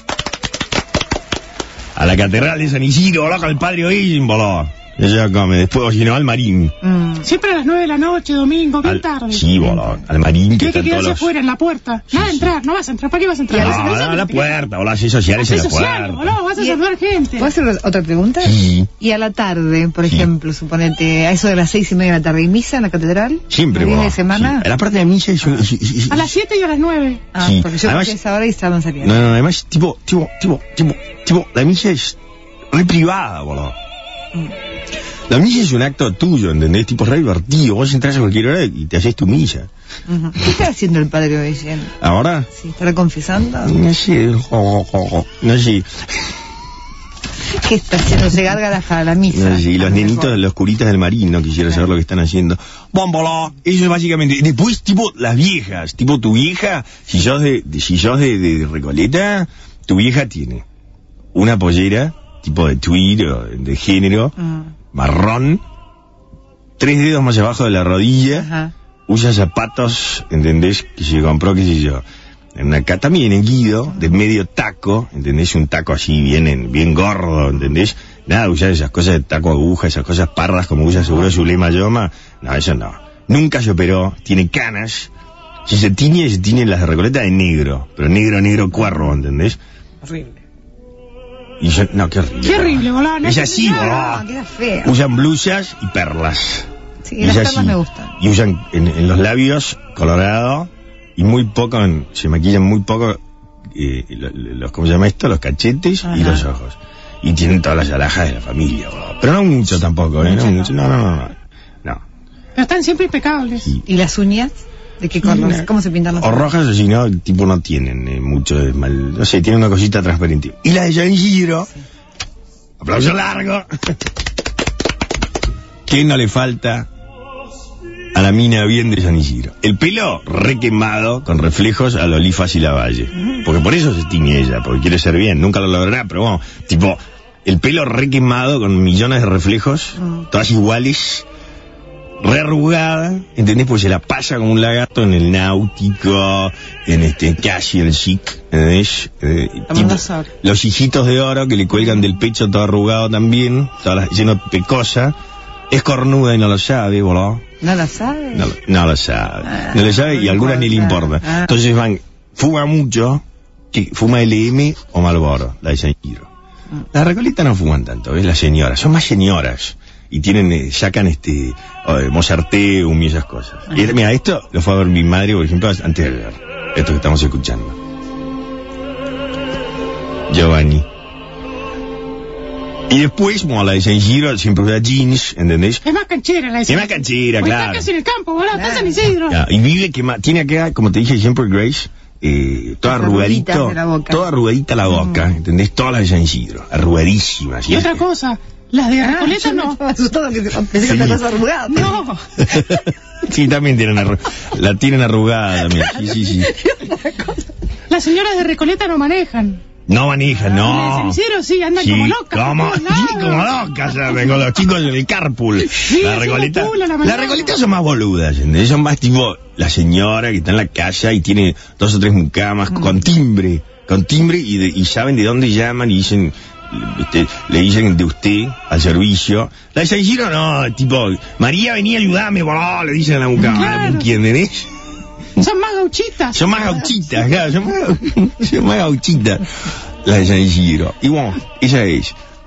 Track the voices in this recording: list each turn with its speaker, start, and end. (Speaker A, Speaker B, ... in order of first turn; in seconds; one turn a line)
Speaker A: 1.9-6.8
Speaker B: 6.8-7.3
Speaker C: 7.2-9.6
Speaker A: 8.8-11.3
Speaker B: 9.6-10.0
Speaker C: 10.6-14.6
Speaker A: 12.1-12.5
Speaker B: 13.5-14.2
Speaker A: 13.5-16.3
Speaker C: 15.3-17.5
Speaker B: 17.4-24.7
Speaker A: 18.4-18.9
Speaker A: 20.0-20.3
Speaker A: 23.5-26.4
Speaker C: 26.1-27.2
Speaker B: 27.3-29.3
Speaker A: 27.4-28.1
Speaker A: 29.0-32.2
Speaker A: 32.7-33.8
Speaker A: 35.3-39.7
Speaker B: 40.1-41.9
Speaker A: 42.0-42.5
Speaker B: 42.5-43.8
Speaker A: 43.6-46.0
Speaker B: 47.5-50.4
Speaker A: 49.3-60.6
Speaker A: 61.3-64.4
Speaker B: 64.4-64.7
Speaker A: 64.9-65.6
Speaker A: 66.8-68.5
Speaker B: 68.3-68.7
Speaker A: 69.1-72.0
Speaker A: 72.5-85.1
Speaker A: 85.7-89.6
Speaker B: 90.0-90.4
Speaker A: 91.6-94.2
Speaker C: 92.4-94.0
Speaker B: 93.8-95.0
Speaker A: 94.8-96.7
Speaker B: 97.0-98.1
Speaker A: 97.2-103.2
Speaker A: 103.7-112.0
Speaker B: 106.0-106.4
Speaker B: 110.2-110.7
Speaker C: 112.5-113.7
Speaker B: 113.8-116.5
Speaker A: 115.2-121.7
Speaker A: 122.8-123.7
Speaker A: 125.8-126.9
Speaker A: 128.1-141.3
Speaker A: 142.2-155.1
Speaker B: 149.7-150.3
Speaker A: 155.7-157.4
Speaker B: 157.6-158.5
Speaker A: 158.3-166.3
Speaker B: 159.5-161.5
Speaker A: 166.9-177.8
Speaker A: 180.3-180.8
Speaker A: 182.9-185.8
Speaker C: 185.8-189.4
Speaker A: 186.7-187.9
Speaker B: 188.5-189.0
Speaker A: 189.2-198.0
Speaker B: 192.8-194.3
Speaker B: 194.8-195.2
Speaker C: 197.7-199.8
Speaker B: 199.0-201.9
Speaker A: 200.8-201.2
Speaker C: 201.7-202.3
Speaker A: 202.4-206.6
Speaker B: 205.8-207.5
Speaker C: 207.9-209.6
Speaker A: 209.9-211.2
Speaker C: 210.4-213.6
Speaker A: 211.7-234.7
Speaker C: 215.7-217.6
Speaker C: 233.4-234.1
Speaker C: 235.3-236.7
Speaker A: 236.3-239.4
Speaker A: 240.0-242.2